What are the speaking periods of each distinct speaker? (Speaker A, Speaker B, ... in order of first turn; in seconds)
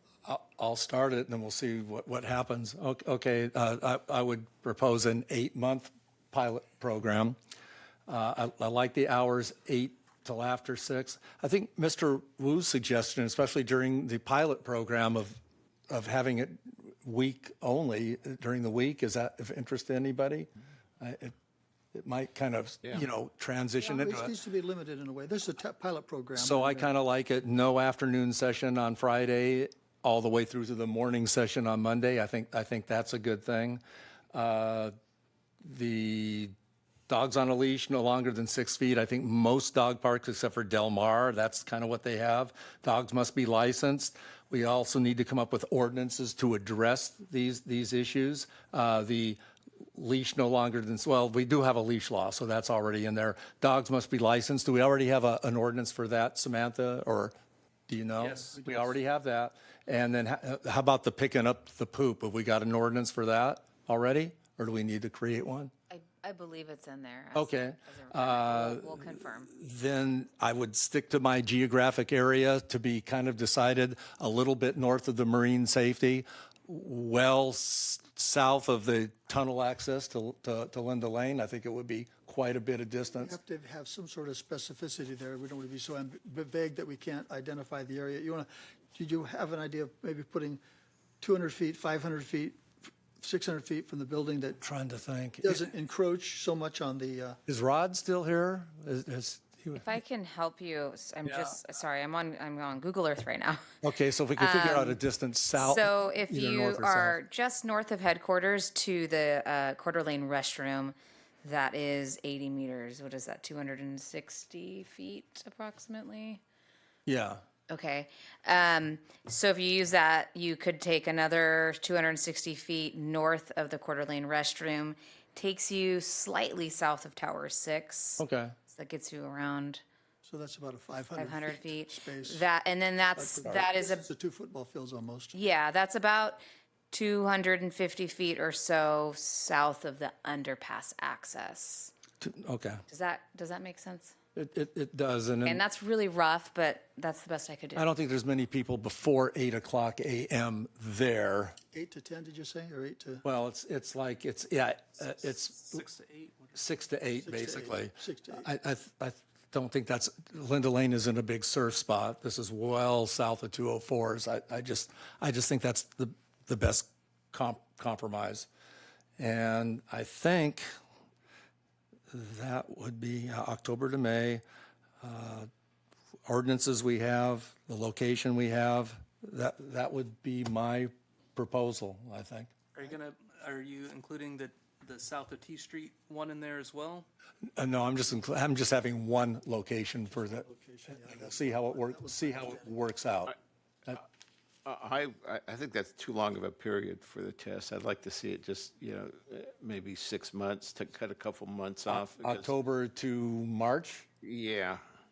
Speaker A: 0.2-7.4, 8.1-20.5, 21.0-21.4, 21.9-24.3, 26.4-33.8, 34.3-34.9, 35.6-36.5, 37.1-49.4, 50.0-57.3, 57.9-65.7, 67.3-83.3, 94.6-95.7, 97.5-99.9, 103.8-107.2, 117.1-117.4, 128.2-128.6, 142.2-142.8, 144.4-145.6, 147.8-151.6, 153.2-155.8, 156.6-168.5, 169.2-170.7, 172.1-174.4, 175.0-175.5, 176.3-182.5, 187.6-190.5, 191.0-193.3, 201.9-204.1
Speaker B: 23.8-26.9, 83.1-90.6, 91.2-92.7, 93.2-94.6, 95.4-97.4, 130.2-132.4, 133.2-135.4, 151.7-153.2, 157.2-158.5, 190.4-192.8
Speaker C: 58.2-58.5, 101.3-101.6, 155.7-156.6, 182.8-187.1
Speaker D: 65.9-69.5, 99.8-103.8, 104.3-105.0, 105.5-116.4, 117.7-129.8, 131.2-134.0, 135.3-141.9, 142.9-144.2, 145.4-147.9
Speaker E: 194.7-202.5, 204.2-204.8